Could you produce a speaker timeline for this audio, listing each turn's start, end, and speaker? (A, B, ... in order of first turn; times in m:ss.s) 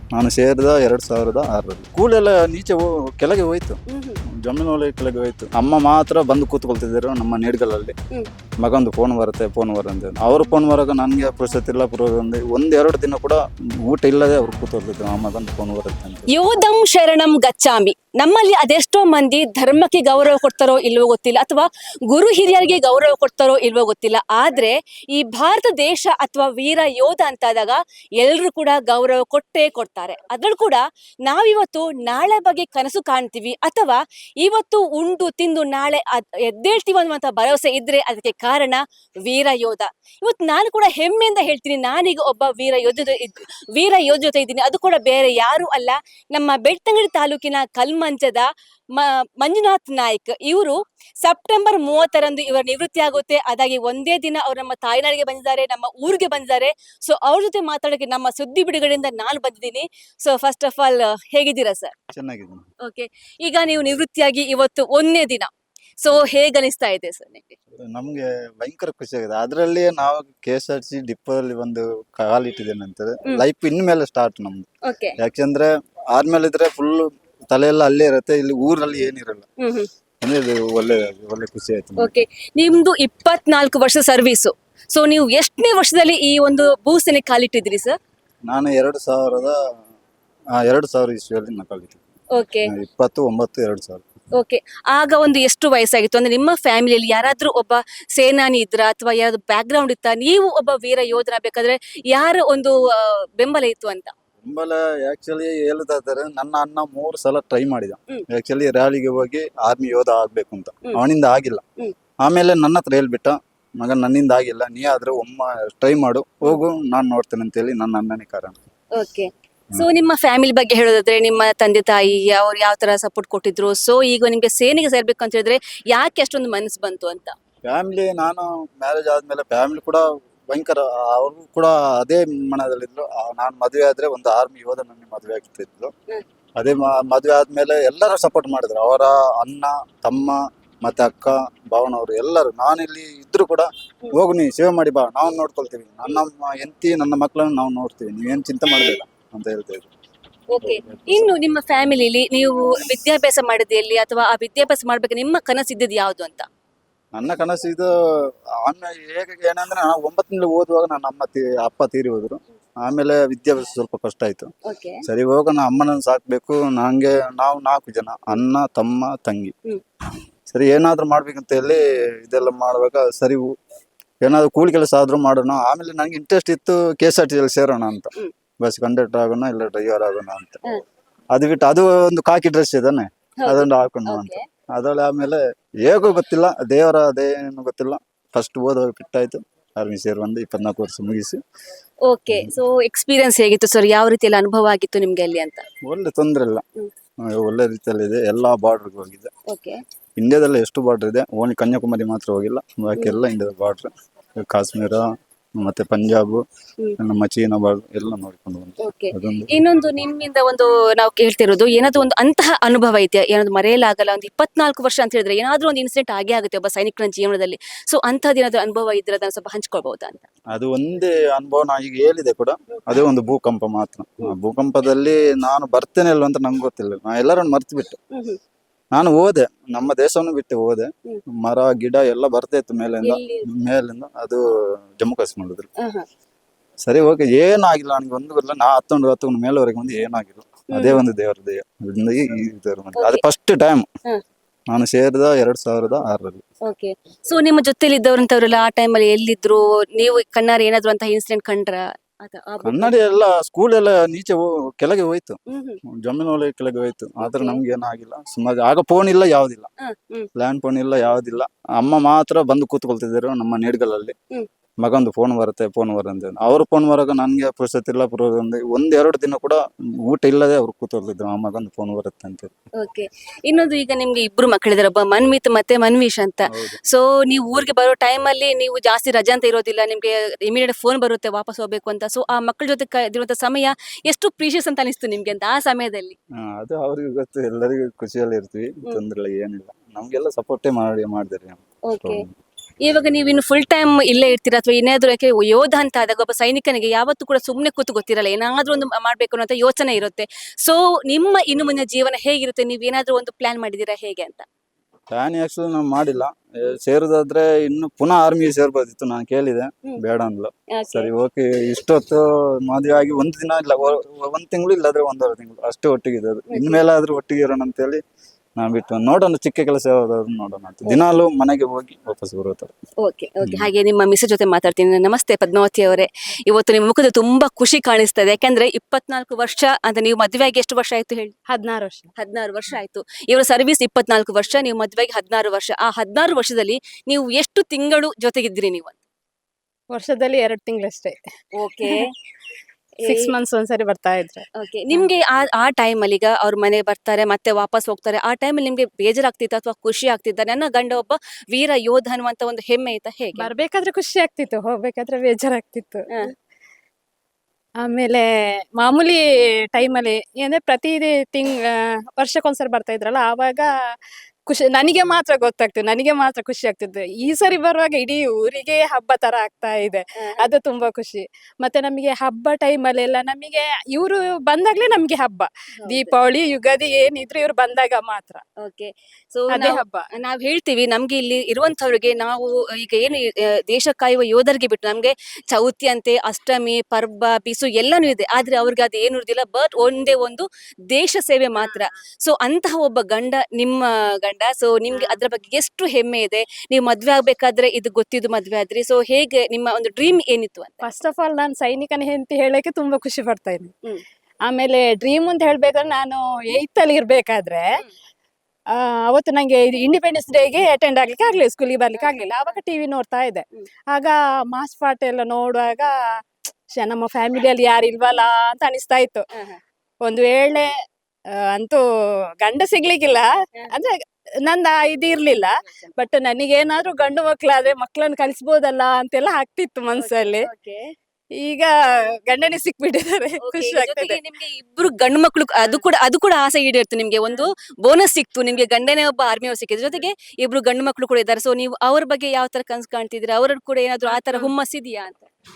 0:00.1-0:03.8 A
0:03.9-0:04.2 B
0:04.4-0:07.9 A
0:08.6-0:16.3 A
0:16.3-1:01.9 B
1:02.1-1:02.6 A
1:02.8-1:07.6 B
1:07.9-1:14.6 A
1:14.9-1:15.1 B
1:15.2-1:19.4 A
1:19.6-1:19.9 B
1:20.2-1:22.2 A
1:22.0-1:27.9 B
1:28.5-1:29.6 A
1:30.6-1:32.0 A
1:32.4-1:32.7 B
1:32.6-1:34.0 A
1:34.4-1:44.1 B
1:44.4-1:51.6 A
1:52.2-1:58.6 A
1:59.0-2:07.3 B
2:07.7-2:15.9 A
2:16.6-2:29.9 A
2:30.5-2:36.5 B
2:30.6-2:31.4 A
2:37.1-2:37.9 A
2:38.6-2:44.5 A
2:44.7-2:45.0 B
2:45.1-2:49.5 A
2:50.5-2:53.4 A
2:54.2-2:58.1 A
2:58.6-3:00.6 A
3:01.3-3:11.4 A
3:03.4-3:04.4 B
3:12.1-3:15.6 B
3:12.3-3:12.5 A
3:15.9-3:16.6 A
3:17.3-3:19.3 A
3:19.5-3:19.8 B
3:20.2-3:23.9 A
3:24.4-3:25.0 A
3:25.6-3:26.4 A
3:27.0-3:29.6 A
3:28.8-3:40.2 B
3:40.5-3:48.0 A
3:48.1-3:48.4 B
3:48.9-3:50.9 A
3:51.4-3:54.4 A
3:53.0-3:53.4 B
3:55.0-3:55.7 A
3:56.8-4:03.8 A
4:00.7-4:01.0 B
4:03.0-4:03.2 B
4:04.7-4:06.4 A
4:06.7-4:12.9 B
4:12.6-4:15.4 A
4:15.5-4:15.8 B
4:16.0-4:19.7 A
4:17.2-4:17.6 B
4:19.9-4:20.3 B
4:20.4-4:24.2 A
4:24.8-4:32.5 A
4:32.8-4:46.2 B
4:36.5-4:36.8 A
4:46.5-4:52.3 A
4:51.9-4:52.2 B
4:52.8-5:04.4 B
5:05.1-5:18.0 A
5:10.8-5:11.1 B
5:16.5-5:16.8 B
5:18.6-5:22.7 A
5:23.0-5:31.3 B
5:23.4-5:23.7 A
5:31.5-5:32.1 C
5:32.2-5:39.0 B
5:39.9-5:41.2 C
5:41.6-5:42.1 B
5:43.0-5:43.3 B
5:43.0-5:45.1 C
5:44.6-5:53.5 B
5:53.4-5:56.0 C
5:57.8-6:03.7 C
6:04.5-6:18.4 C
6:15.9-6:16.2 B
6:18.6-6:40.8 B
6:19.5-6:20.0 C
6:31.6-6:31.9 C
6:34.9-6:35.2 C
6:40.8-6:43.7 C
6:44.5-6:47.7 C
6:48.7-6:55.9 C
6:51.9-6:52.5 B
6:56.7-6:59.2 C
7:00.0-7:00.7 C
7:01.5-7:01.8 C
7:02.4-7:03.9 C
7:04.5-7:10.4 C
7:10.0-7:10.8 B
7:11.4-7:11.7 C
7:12.2-7:14.2 C
7:13.5-7:25.3 B
7:24.0-7:24.5 C